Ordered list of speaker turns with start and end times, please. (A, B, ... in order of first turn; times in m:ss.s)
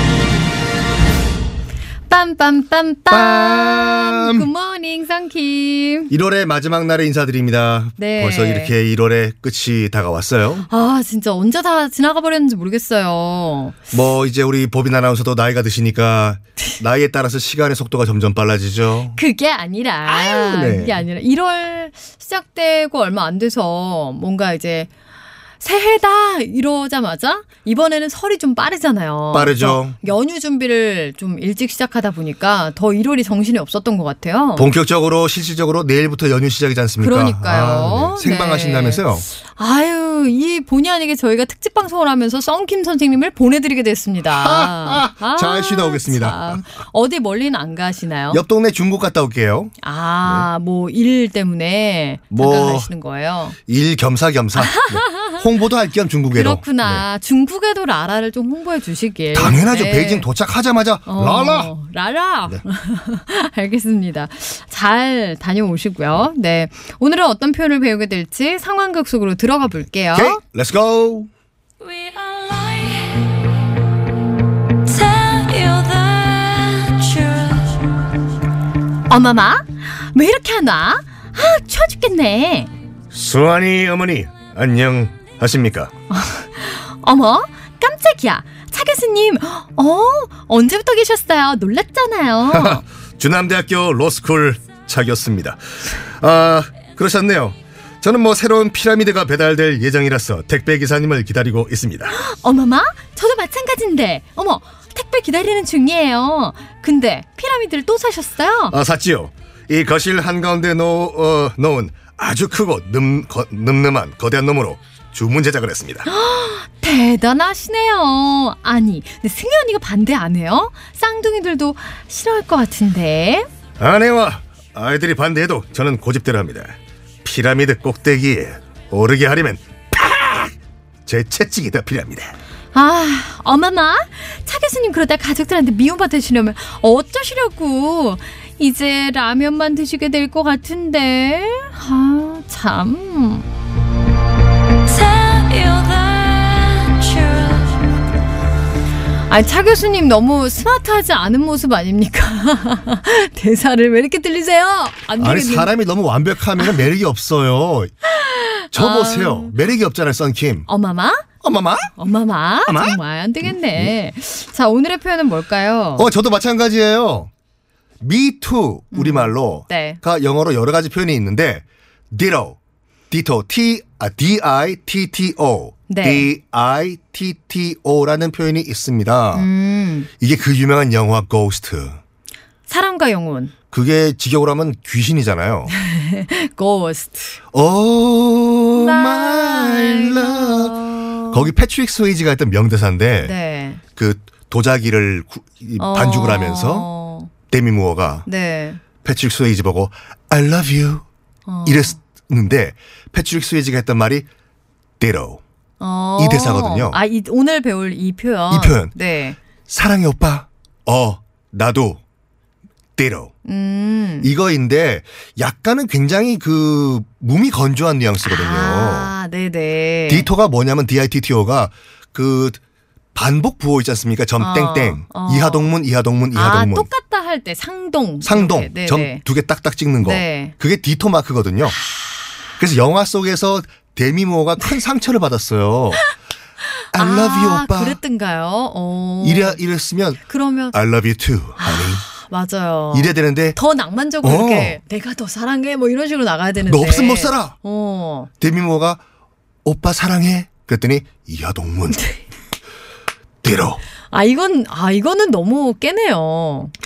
0:02.1-0:06.1 A
0:03.1-0:04.5 B
0:06.1-0:10.7 B
0:08.0-0:08.7 A
0:10.7-0:13.8 A
0:13.9-0:19.2 B
0:19.1-0:24.9 A
0:20.0-0:21.0 B
0:25.6-0:34.7 A
0:29.3-0:30.0 B
0:34.6-0:39.2 B
0:37.0-0:48.4 A
0:44.2-0:46.6 B
0:48.3-0:49.7 B
0:49.8-0:53.6 A
0:52.3-0:52.9 B
0:53.7-0:57.0 B
0:54.6-0:55.4 A
0:56.3-1:00.3 A
0:59.3-1:01.7 B
1:01.1-1:10.4 A
1:10.1-1:11.3 B
1:11.9-1:13.2 C
1:14.9-1:17.6 A
1:15.0-1:17.6 C
1:19.1-1:22.7 A
1:23.1-1:25.9 B
1:26.1-1:32.8 A
1:32.5-1:42.2 B
1:42.1-1:48.8 A
1:48.7-1:56.1 B
1:56.0-2:03.4 A
2:03.8-2:10.5 B
2:11.0-2:12.3 B
2:12.7-2:23.4 A
2:24.8-2:27.7 A
2:29.3-2:35.7 A
2:35.2-2:37.9 B
2:36.6-2:36.8 A
2:38.1-2:39.5 A
2:38.7-2:40.7 B
2:40.7-2:41.3 A
2:41.4-2:41.9 B
2:42.0-2:46.1 A
2:42.6-2:43.9 B
2:46.0-2:47.3 B
2:48.0-2:52.6 B
2:48.9-2:50.0 A
2:53.1-2:59.5 B
2:55.9-2:56.3 A
2:59.3-3:00.1 A
3:00.2-3:02.0 B
3:02.7-3:03.5 A
3:03.7-3:05.7 B
3:05.7-3:07.4 A
3:07.5-3:13.3 B
3:08.7-3:11.5 A
3:13.2-3:13.8 A
3:14.0-3:16.9 B
3:15.8-3:17.3 A
3:17.5-3:18.3 B
3:18.2-3:18.8 A
3:19.0-3:21.0 B
3:21.4-3:22.0 A
3:21.6-3:24.3 B
3:25.0-3:25.4 B
3:25.8-3:29.4 A
3:26.2-3:27.0 B
3:28.5-3:28.9 B
3:29.7-3:32.0 B
3:33.0-3:33.3 B
3:33.4-3:34.3 A
3:34.2-3:39.1 B
3:38.2-3:40.3 A
3:40.1-3:42.6 B
3:43.1-3:46.9 B
3:44.4-3:45.7 A
3:46.3-3:49.2 A
3:48.2-3:51.8 B
3:50.0-3:50.5 A
3:52.6-3:56.0 B
3:56.9-3:59.6 A
3:56.9-3:58.0 B
3:59.2-4:00.2 B
4:00.2-4:00.8 A
4:00.7-4:02.0 B
4:01.6-4:08.3 A
4:02.9-4:03.6 B
4:04.2-4:04.8 B
4:06.7-4:07.6 B
4:08.4-4:09.0 B
4:09.6-4:12.0 B
4:13.4-4:13.8 B
4:14.1-4:16.8 A